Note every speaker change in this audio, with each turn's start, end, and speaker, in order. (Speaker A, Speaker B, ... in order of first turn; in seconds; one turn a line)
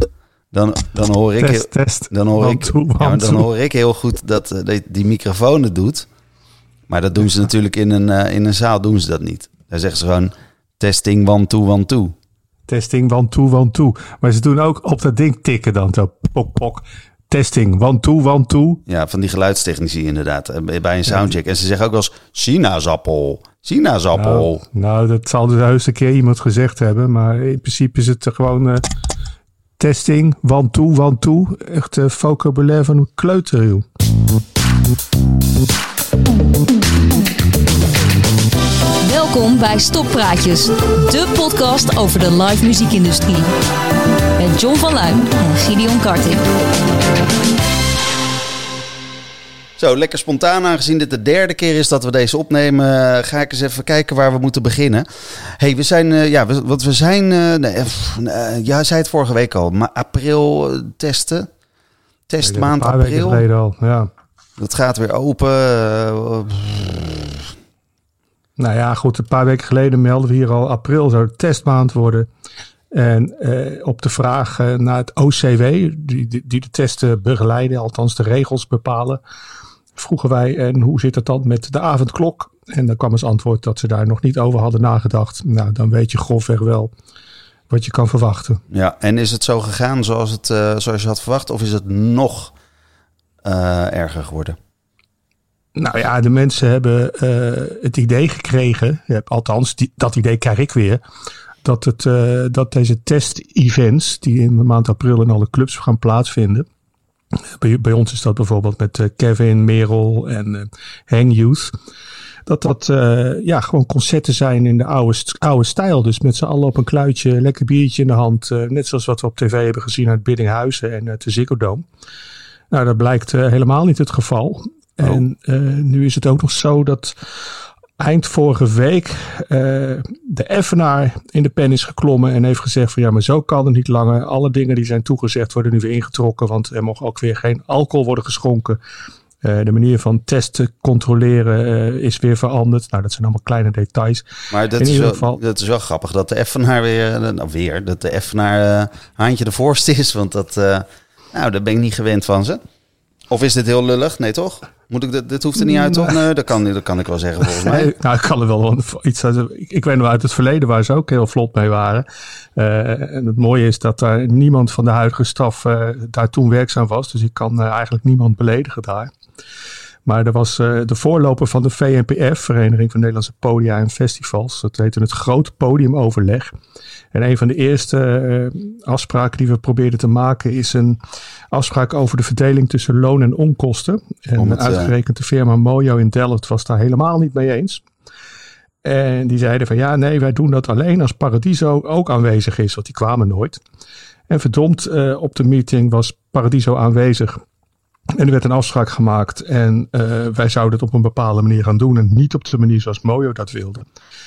Speaker A: 0.5-6.0
Speaker B: 1.4-3.5
Speaker A: 6.9-12.1
Speaker B: 12.7-18.8
Speaker A: 18.9-24.6
Speaker B: 24.1-28.8
Speaker B: 29.8-33.8
Speaker C: 39.0-43.5
Speaker C: 44.4-46.4
Speaker A: 49.8-61.5
Speaker A: 62.3-63.4
Speaker B: 62.4-64.1
Speaker A: 64.6-67.4
Speaker B: 68.6-72.3
Speaker B: 72.9-79.2
Speaker B: 80.0-86.9
Speaker B: 87.7-88.6
Speaker A: 88.7-92.5
Speaker A: 93.4-94.5
Speaker B: 95.7-101.0
Speaker B: 101.6-106.7
Speaker B: 107.6-111.7
Speaker B: 112.5-121.8
Speaker B: 122.7-127.2
Speaker B: 128.0-138.8
Speaker B: 139.4-145.4
Speaker A: 144.5-152.6
Speaker A: 153.3-157.9
Speaker B: 157.6-169.1
Speaker B: 170.0-176.5
Speaker B: 177.1-181.0
Speaker B: 181.5-187.8
Speaker A: 184.4-184.9
Speaker B: 188.8-193.6
Speaker B: 194.3-197.4
Speaker B: 198.1-203.8